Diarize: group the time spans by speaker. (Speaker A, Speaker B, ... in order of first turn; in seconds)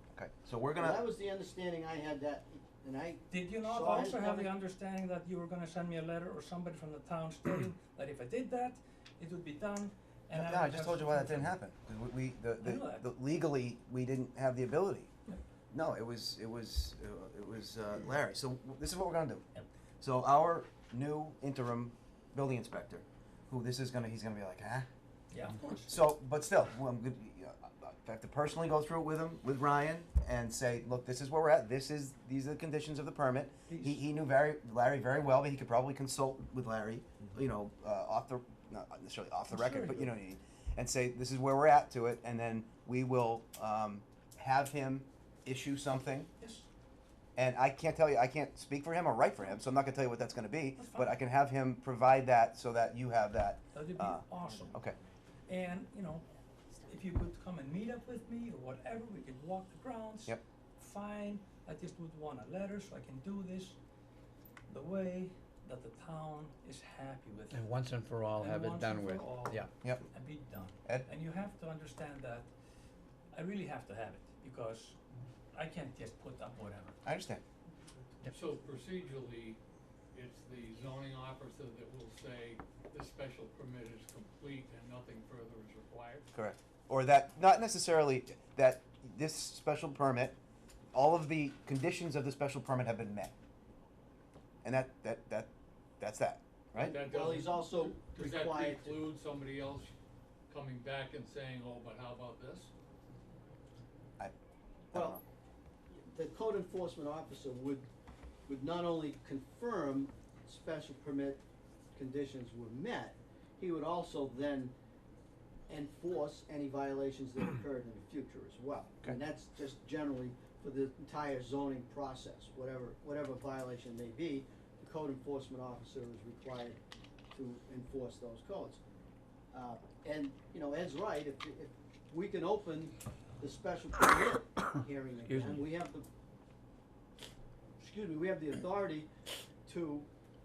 Speaker A: 0.1-1.0, 10.3-15.1, 15.7-19.4, 20.0-24.9, 25.9-46.3, 47.4-55.0, 77.0-77.4, 86.3-90.4, 90.9-93.3, 94.6-97.0, 104.9-105.2
Speaker B: 0.8-4.5, 96.8-99.0, 104.9-105.2, 105.9-107.8, 108.5-111.4, 111.9-114.7, 115.7-126.8, 127.3-128.8, 129.5-136.1, 137.8-139.1, 139.7-140.1
Speaker C: 3.3-11.5, 12.6-13.1, 25.3-25.9, 33.7-34.0, 39.5-40.1, 46.4-46.7, 50.8-51.2, 53.7-54.8, 55.5-56.2, 56.8-63.8, 64.7-67.6, 68.3-72.5, 73.3-75.0, 75.5-77.0
Speaker D: 67.5-69.7, 135.2-135.6
Speaker E: 78.3-79.6, 80.1-86.3, 96.8-99.9, 100.5-102.7